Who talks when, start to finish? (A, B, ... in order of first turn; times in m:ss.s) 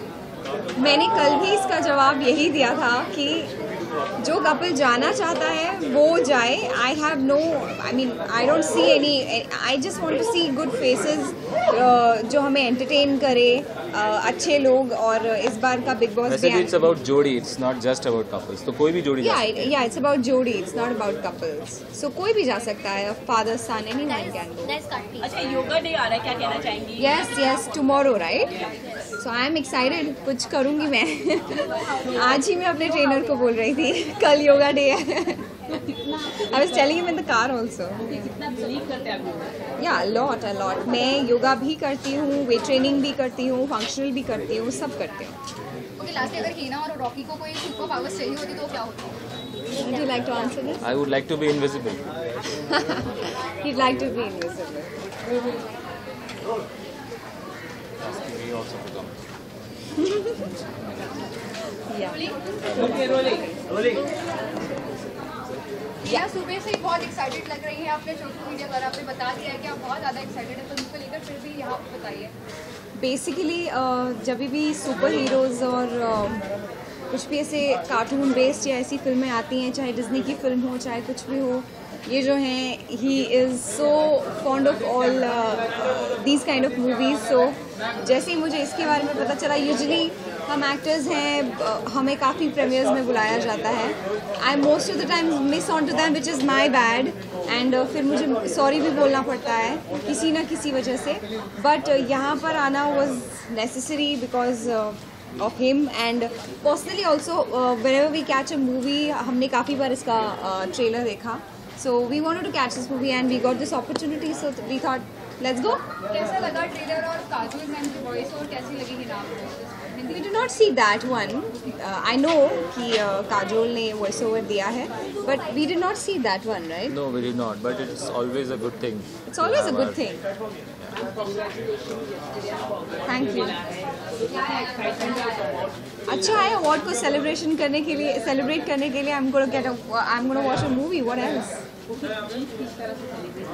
0:00.8-0:03.5 A
0:04.2-0:16.9 A
0:16.3-0:19.7 B
0:19.2-0:24.9 A
0:25.2-0:27.2 C
0:27.0-0:28.6 A
0:29.2-0:35.6 A
0:36.3-0:38.4 A
0:38.5-0:39.3 C
0:39.8-0:45.3 A
0:46.0-0:49.2 D
0:49.7-0:50.9 A
0:50.8-0:52.0 B
0:52.5-0:54.9 A
0:58.0-0:59.1 B
1:00.0-1:00.5 A
1:01.9-1:02.3 A
1:02.7-1:03.0 B
1:06.1-1:12.3 D
1:13.0-1:16.4 A
1:17.1-1:55.9 A
1:56.0-2:00.2 D
2:00.1-2:07.0 A
2:06.9-2:10.0 B
2:09.3-2:10.2 A
2:13.1-2:13.7 A
2:16.1-2:21.6 A